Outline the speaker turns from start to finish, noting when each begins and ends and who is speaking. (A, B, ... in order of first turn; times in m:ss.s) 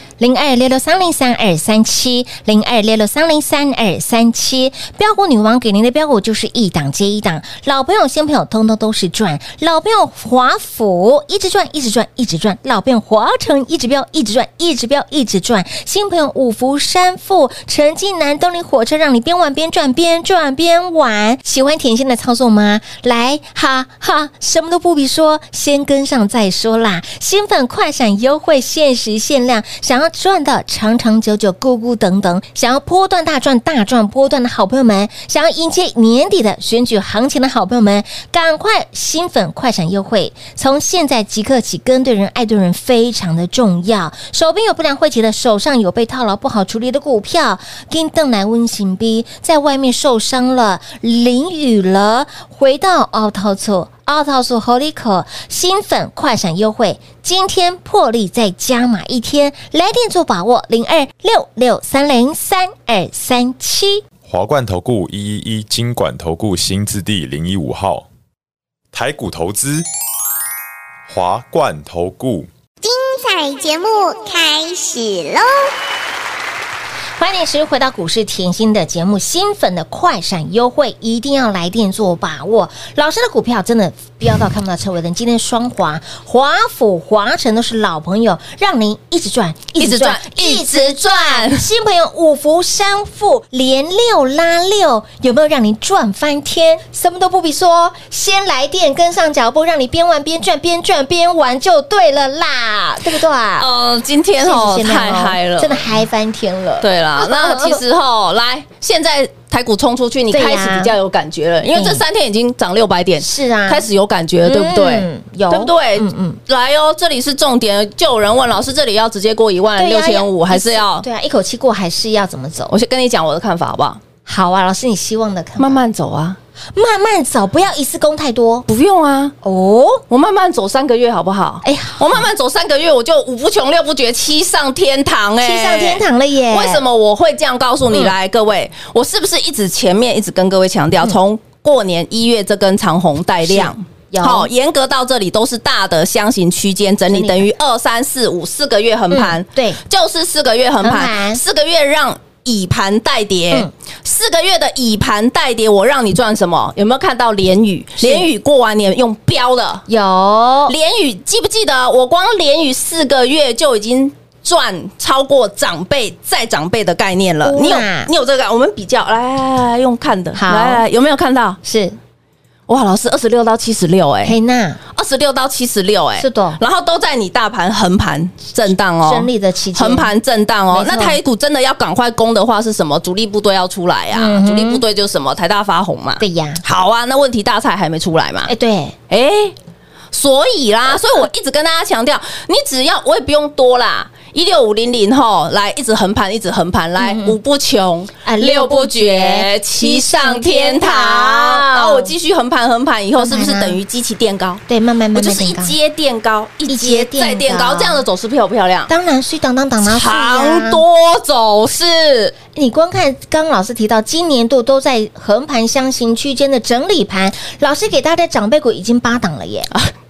0:00.2-1:04.0 A
1:04.2-1:08.1 B
1:08.9-1:09.9 B
1:11.1-1:12.5 B
1:12.8-1:15.7 C
1:17.2-1:43.7 A
1:29.8-1:31.6 D
1:43.6-1:45.9 D
1:44.4-1:47.8 A
1:46.8-2:01.0 D
1:50.3-1:50.9 A
1:51.7-1:52.0 A
1:53.2-1:53.9 A
1:54.4-1:56.4 A
1:59.8-2:02.7 A
2:02.7-2:04.0 D
2:04.3-2:05.8 A
2:05.6-2:06.4 D
2:06.8-2:08.7 A
2:08.7-2:09.3 D
2:09.4-2:10.0 A
2:10.1-2:39.8 D
2:11.6-2:12.3 A
2:15.4-2:16.8 A
2:23.5-2:24.5 A
2:27.1-2:27.5 A
2:29.1-2:29.8 A
2:30.8-2:31.4 A
2:38.0-2:38.3 A
2:39.9-2:40.7 A
2:40.7-2:51.6 D
2:47.4-2:48.1 A
2:50.4-2:50.8 A
2:51.6-2:52.0 A
2:52.7-2:54.4 D
2:54.2-2:54.8 A
2:54.9-3:08.5 D
2:56.2-2:56.6 A
2:59.0-3:00.1 A
3:00.7-3:01.2 A
3:04.1-3:04.8 A
3:06.2-3:06.6 A
3:08.5-3:09.0 A
3:09.1-3:09.6 D
3:10.1-3:24.6 D
3:17.0-3:17.4 A
3:18.2-3:22.1 A
3:23.2-3:23.8 A
3:24.7-3:25.8 A
3:25.2-3:28.9 D
3:26.7-3:28.0 A
3:28.9-3:30.8 A
3:29.8-3:32.4 D
3:32.5-3:39.7 A